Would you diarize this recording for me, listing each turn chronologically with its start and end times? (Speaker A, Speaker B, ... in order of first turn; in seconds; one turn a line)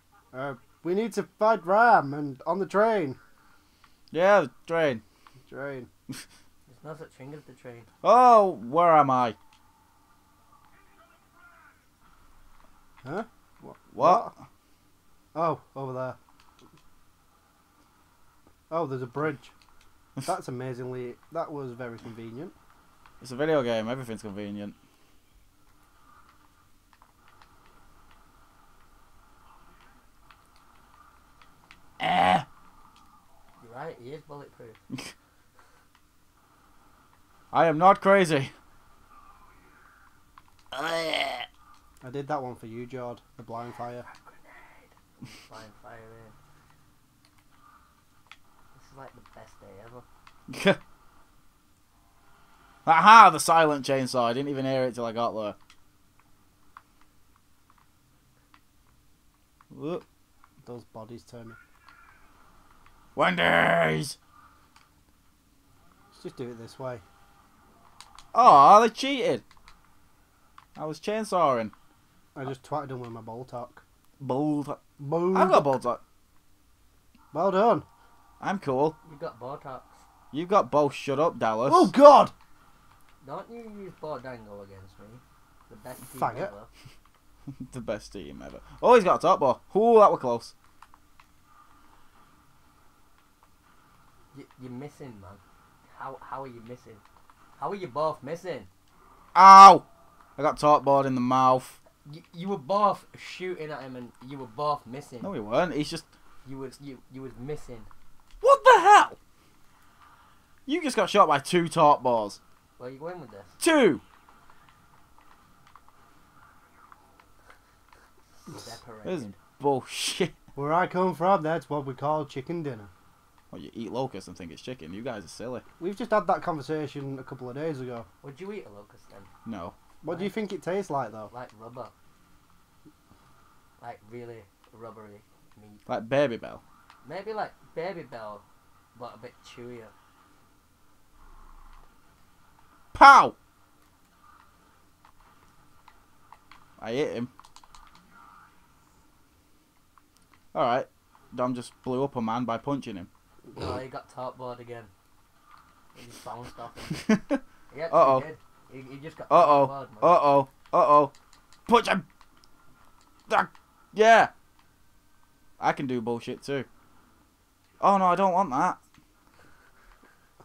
Speaker A: 0.3-3.2
Speaker B: 4.1-5.0
Speaker A: 5.5-5.9
Speaker C: 6.7-7.9
Speaker B: 8.0-9.4
Speaker A: 13.0-14.3
Speaker B: 13.9-14.3
Speaker A: 15.3-16.2
Speaker A: 18.7-19.5
Speaker A: 20.2-22.6
Speaker B: 23.2-24.8
Speaker B: 32.0-32.5
Speaker C: 33.6-34.8
Speaker B: 37.5-38.5
Speaker C: 40.7-41.5
Speaker A: 42.0-44.0
Speaker C: 44.0-46.4
Speaker C: 48.8-50.0
Speaker B: 50.5-50.8
Speaker B: 52.9-55.6
Speaker B: 59.7-60.0
Speaker A: 60.6-61.6
Speaker B: 63.2-64.2
Speaker A: 66.1-67.0
Speaker B: 68.3-69.4
Speaker B: 70.8-71.7
Speaker A: 72.3-73.8
Speaker B: 74.2-74.8
Speaker A: 75.0-75.8
Speaker B: 75.3-76.0
Speaker A: 77.3-77.9
Speaker B: 78.4-79.0
Speaker C: 79.0-80.0
Speaker B: 80.3-81.9
Speaker A: 81.7-82.3
Speaker C: 83.2-86.7
Speaker A: 86.2-86.5
Speaker B: 87.6-90.5
Speaker C: 94.3-95.4
Speaker C: 95.9-97.0
Speaker C: 97.6-98.7
Speaker B: 99.3-99.8
Speaker B: 100.4-101.8
Speaker C: 102.0-105.3
Speaker B: 105.2-106.1
Speaker C: 106.5-107.9
Speaker B: 108.4-109.2
Speaker B: 110.7-112.4
Speaker C: 112.8-113.6
Speaker B: 113.6-114.0
Speaker C: 118.4-119.4
Speaker B: 119.0-120.3
Speaker A: 120.5-122.9
Speaker B: 123.5-125.6
Speaker A: 125.8-128.1
Speaker C: 128.2-129.3
Speaker B: 129.4-129.8
Speaker A: 130.0-131.3
Speaker C: 130.1-130.4
Speaker C: 131.3-131.9
Speaker C: 133.8-135.8
Speaker B: 135.9-136.6
Speaker C: 137.0-138.4
Speaker C: 138.9-139.9
Speaker B: 142.9-143.3
Speaker B: 146.8-147.3
Speaker B: 150.5-153.1
Speaker C: 153.5-154.9
Speaker C: 155.9-157.1
Speaker B: 156.9-158.3
Speaker C: 157.7-160.2
Speaker B: 159.3-161.1
Speaker B: 161.7-162.1
Speaker B: 163.3-164.3
Speaker B: 165.6-166.7
Speaker B: 167.8-168.8